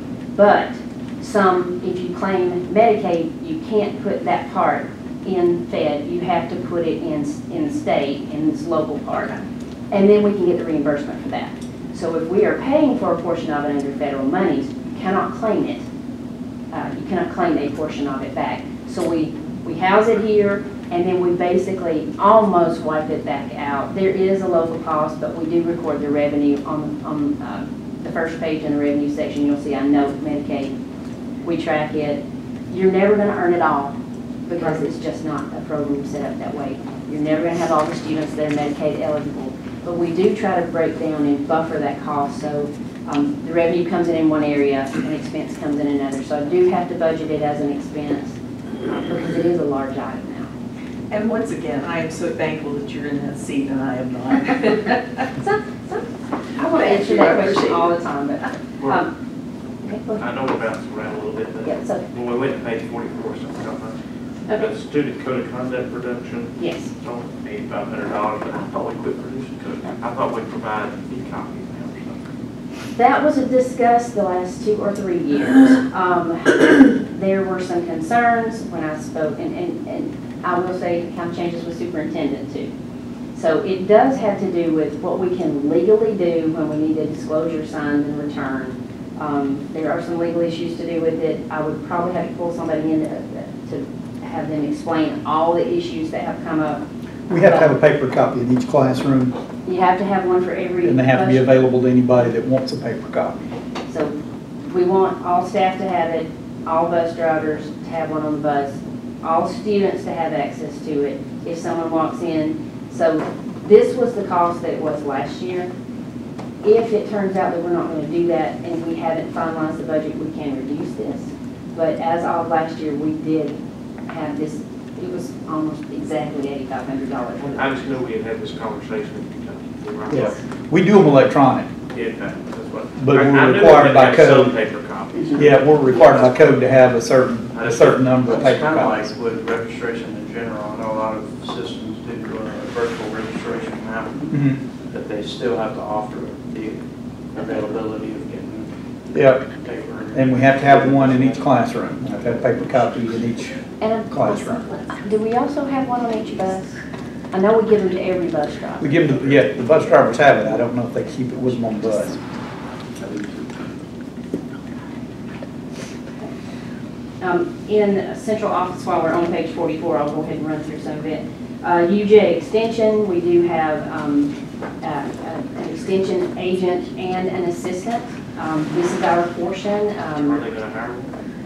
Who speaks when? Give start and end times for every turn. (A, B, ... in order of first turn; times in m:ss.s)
0:00.4-0:09.3 A
0:09.9-0:15.8 A
0:16.7-0:30.7 A
0:31.4-0:33.9 A
0:34.4-0:48.4 A
0:49.0-0:50.5 A
0:51.1-0:55.3 B
0:55.4-0:59.1 A
0:56.6-0:57.9 B
0:58.8-0:59.0 C
0:59.8-1:00.2 A
1:00.2-1:04.0 C
1:01.6-1:02.0 A
1:04.5-1:12.3 C
1:06.6-1:06.9 A
1:12.9-1:22.7 A
1:23.3-1:36.8 A
1:37.3-1:39.3 D
1:37.4-1:37.7 A
1:39.6-1:41.5 A
1:40.8-1:43.4 D
1:43.9-1:55.7 A
1:56.6-2:07.8 A
2:07.4-2:10.4 C
2:10.1-2:11.7 D
2:10.1-2:10.4 A
2:11.9-2:16.8 C
2:13.0-2:14.5 D
2:15.3-2:19.1 D
2:17.5-2:18.5 C
2:17.6-2:24.3 E
2:24.3-2:24.6 D
2:24.9-2:26.8 E
2:27.3-2:28.7 E
2:27.4-2:28.4 C
2:29.1-2:29.4 D
2:29.6-2:31.4 E
2:29.7-2:31.3 C
2:30.1-2:34.7 D
2:33.8-2:36.8 A
2:37.3-2:39.0 A
2:38.8-2:42.2 D
2:47.2-3:00.5 A
3:00.1-3:01.1 C